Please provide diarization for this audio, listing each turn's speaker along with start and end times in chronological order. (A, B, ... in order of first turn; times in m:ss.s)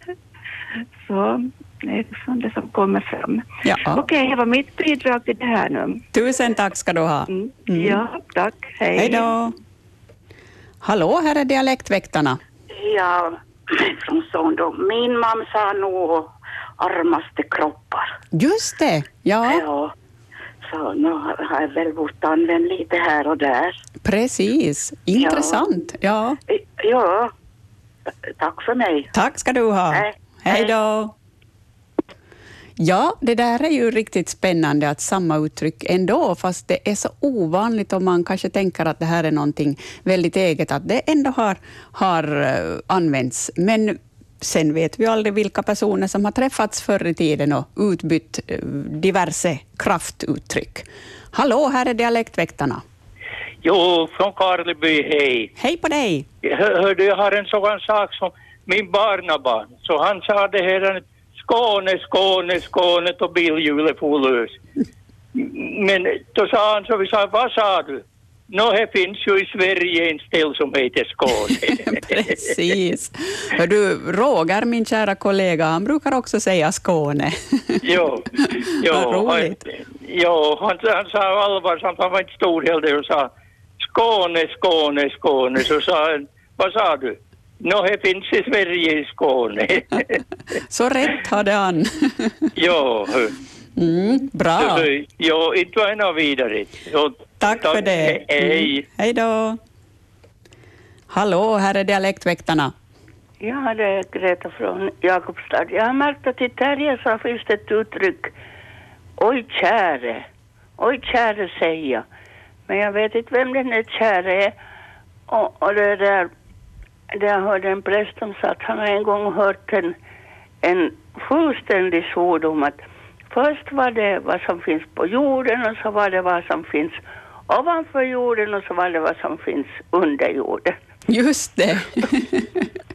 0:01.0-0:06.0 A
0:03.6-0:04.0 B
0:06.1-0:08.0 B
0:07.3-0:09.3 A
0:09.0-0:09.5 B
0:10.8-0:12.4 B
0:12.7-0:18.1 C
0:18.3-0:19.6 B
0:19.4-0:19.9 C
0:20.6-0:23.8 C
0:24.0-0:26.4 B
0:25.2-0:25.6 C
0:26.5-0:27.3 C
0:28.3-0:29.1 C
0:29.1-0:31.1 B
0:29.9-0:30.7 C
0:32.8-0:52.8 B
0:53.6-0:55.5 D
0:55.6-0:56.2 B
0:56.4-1:04.6 D
1:05.4-1:12.3 D
1:11.7-1:17.8 B
1:17.8-1:18.2 D
1:18.8-1:23.3 D
1:18.9-1:19.6 B
1:23.8-1:30.0 D
1:30.7-1:32.4 B
1:32.5-1:33.3 D
1:33.8-1:34.9 B
1:34.6-1:38.9 D
1:37.4-1:39.6 B
1:41.1-1:42.7 B
1:43.4-1:48.3 E
1:49.2-1:50.2 E
1:50.8-1:52.0 E
1:52.7-1:54.6 E
1:55.3-1:56.3 E
1:57.1-2:00.0 E
2:00.6-2:10.8 E
2:11.1-2:12.6 B